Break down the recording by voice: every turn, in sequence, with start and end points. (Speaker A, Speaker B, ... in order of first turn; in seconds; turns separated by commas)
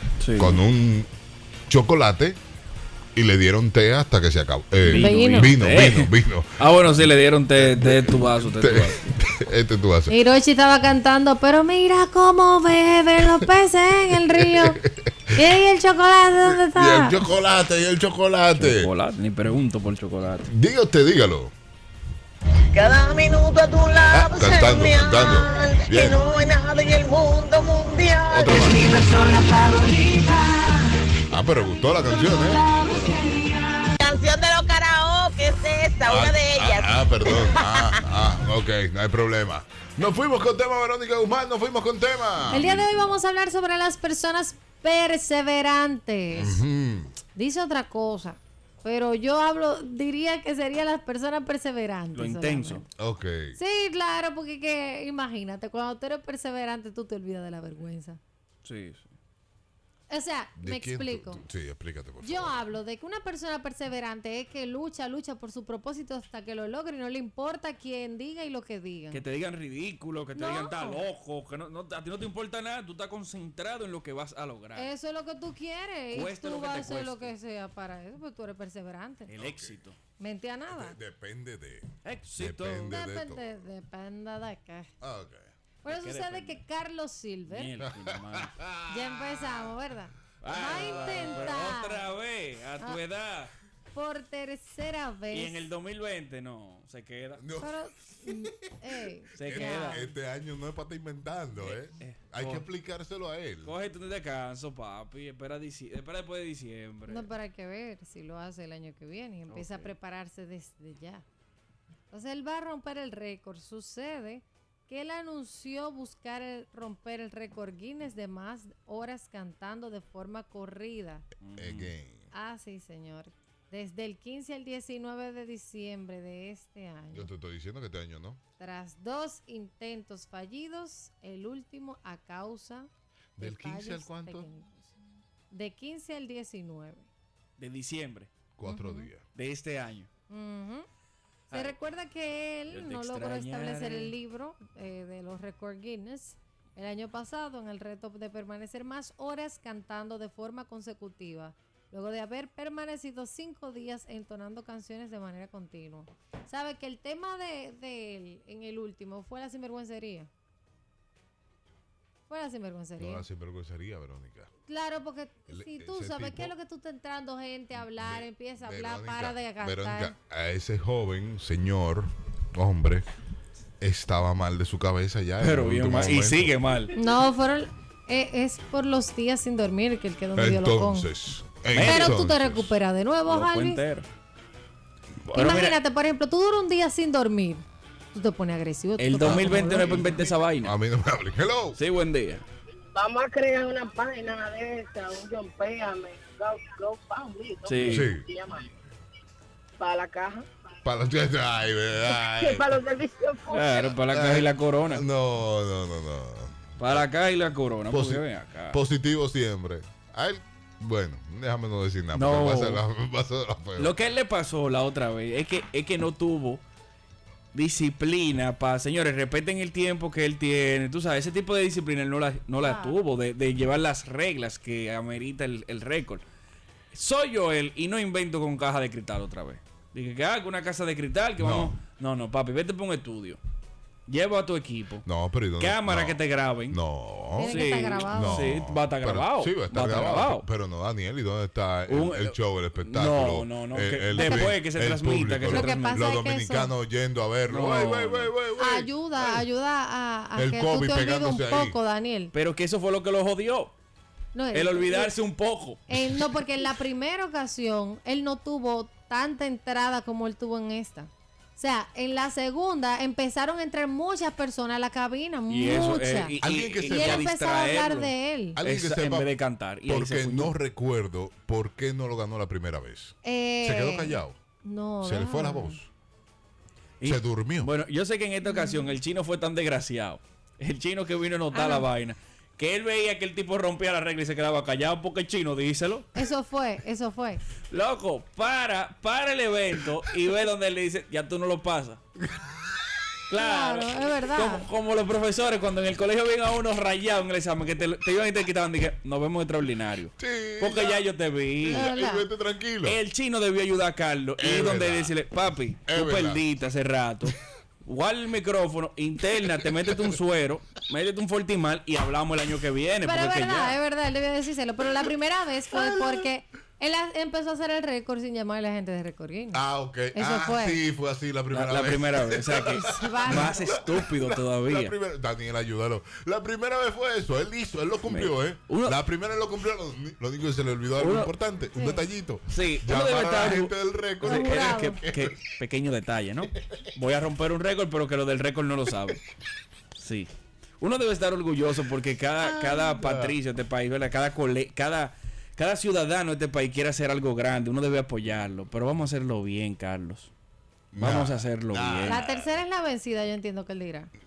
Speaker A: 0.2-0.6, Speaker B: 0.4-1.1, Speaker B: 1.7-2.4, Speaker B: 3.1-6.7, Speaker A: 4.8-9.0, Speaker C: 5.0-5.5, Speaker B: 7.6-10.2, Speaker C: 10.1-14.8, Speaker B: 14.2-15.3, Speaker C: 15.3-17.2, Speaker B: 16.4-18.9, Speaker A: 18.6-20.5, Speaker B: 20.5-21.5, Speaker D: 22.7-30.4, Speaker B: 24.1-26.3, Speaker B: 28.3-29.0, Speaker B: 31.3-33.0, Speaker D: 32.8-33.1, Speaker D: 34.0-37.6, Speaker B: 36.0-43.1, Speaker C: 42.5-46.6, Speaker B: 46.3-47.2, Speaker C: 47.4-52.9, Speaker A: 52.1-52.8, Speaker B: 53.0-53.6, Speaker C: 53.6-58.2, Speaker A: 58.6-59.1, Speaker C: 60.1-61.4, Speaker B: 60.6-62.6, Speaker C: 62.2-69.2, Speaker A: 69.1-74.9, Speaker C: 70.3-71.0, Speaker C: 74.8-79.3, Speaker A: 76.1-77.3, Speaker A: 79.3-80.0, Speaker B: 79.3-79.8, Speaker C: 80.2-81.0, Speaker B: 80.7-83.5, Speaker A: 82.0-82.9, Speaker C: 82.8-84.9, Speaker B: 85.0-85.5, Speaker C: 85.8-87.7, Speaker A: 85.9-86.6, Speaker A: 87.5-88.6, Speaker B: 87.8-89.2, Speaker C: 88.9-92.1, Speaker A: 90.4-93.5, Speaker B: 90.7-91.6, Speaker C: 93.9-95.7, Speaker A: 95.3-97.4, Speaker B: 97.4-98.7, Speaker C: 97.6-100.1, Speaker B: 99.3-103.7, Speaker A: 99.3-100.1, Speaker A: 101.6-102.7, Speaker A: 103.6-107.3, Speaker C: 107.1-111.2, Speaker A: 109.5-110.0, Speaker C: 112.1-121.2, Speaker A: 121.4-121.9, Speaker B: 121.6-122.3, Speaker C: 122.3-127.3, Speaker B: 127.1-128.4, Speaker C: 128.6-134.9, Speaker B: 133.4-134.5, Speaker C: 135.5-137.1, Speaker A: 137.6-138.3, Speaker B: 138.6-139.2, Speaker C: 138.6-139.1, Speaker A: 139.3-140.1, Speaker C: 140.3-140.9, Speaker A: 141.5-141.8, Speaker C: 141.5-160.3, Speaker A: 142.7-144.2, Speaker C: 162.3-163.2, Speaker B: 163.0-164.5, Speaker C: 164.7-170.2, Speaker B: 165.5-166.5, Speaker B: 167.8-173.1, Speaker B: 173.8-176.8, Speaker A: 175.4-176.9, Speaker C: 177.0-181.1, Speaker B: 180.4-182.7, Speaker A: 181.7-182.2, Speaker C: 181.8-183.8, Speaker A: 183.3-184.1, Speaker A: 185.3-185.8, Speaker C: 185.3-190.1, Speaker A: 189.0-190.8, Speaker B: 189.2-191.8, Speaker A: 191.8-192.4, Speaker E: 192.9-198.7, Speaker A: 197.7-198.1, Speaker B: 197.9-198.3, Speaker E: 199.8-200.5, Speaker B: 200.8-202.8, Speaker E: 202.1-203.9, Speaker A: 203.5-205.1, Speaker B: 204.1-207.1, Speaker A: 206.8-208.8, Speaker B: 207.9-213.9, Speaker A: 212.1-212.8, Speaker A: 213.8-216.6, Speaker A: 217.5-226.2, Speaker C: 222.5-223.0, Speaker A: 226.9-233.4, Speaker B: 231.4-231.8, Speaker A: 234.1-235.1, Speaker B: 235.1-249.5, Speaker A: 235.6-236.8, Speaker C: 237.4-238.6, Speaker A: 237.5-240.5, Speaker A: 241.9-246.1, Speaker C: 244.1-244.5, Speaker C: 245.5-246.7, Speaker A: 247.5-248.3, Speaker C: 248.6-252.3, Speaker B: 250.3-251.8, Speaker A: 252.3-253.8, Speaker C: 254.3-255.1, Speaker A: 254.5-255.8, Speaker C: 255.9-266.4, Speaker B: 255.9-256.3, Speaker A: 265.5-270.6, Speaker B: 266.4-267.3, Speaker C: 266.9-268.6, Speaker B: 268.6-269.3, Speaker B: 269.9-274.4, Speaker C: 273.2-275.8, Speaker B: 275.0-275.9, Speaker A: 277.0-286.1, Speaker B: 277.0-277.7, Speaker C: 278.4-279.0, Speaker C: 281.5-281.9, Speaker C: 286.1-287.5, Speaker A: 287.6-292.0, Speaker A: 293.3-301.9, Speaker C: 293.3-294.7, Speaker B: 300.2-301.0, Speaker C: 301.7-302.3, Speaker B: 301.7-303.0, Speaker A: 302.8-313.8, Speaker B: 304.4-305.1, Speaker B: 305.9-306.4, Speaker C: 313.0-319.6, Speaker B: 315.8-316.2, Speaker B: 319.5-335.4, Speaker C: 320.1-320.8, Speaker A: 321.5-324.9, Speaker C: 322.8-323.6, Speaker A: 328.1-329.0, Speaker A: 331.0-331.3, Speaker C: 331.7-332.0, Speaker A: 332.5-339.2, Speaker C: 334.2-335.0, Speaker A: 340.0-350.3, Speaker C: 342.4-343.0, Speaker B: 343.0-343.4, Speaker B: 350.9-352.5, Speaker A: 351.0-352.3, Speaker C: 352.1-354.1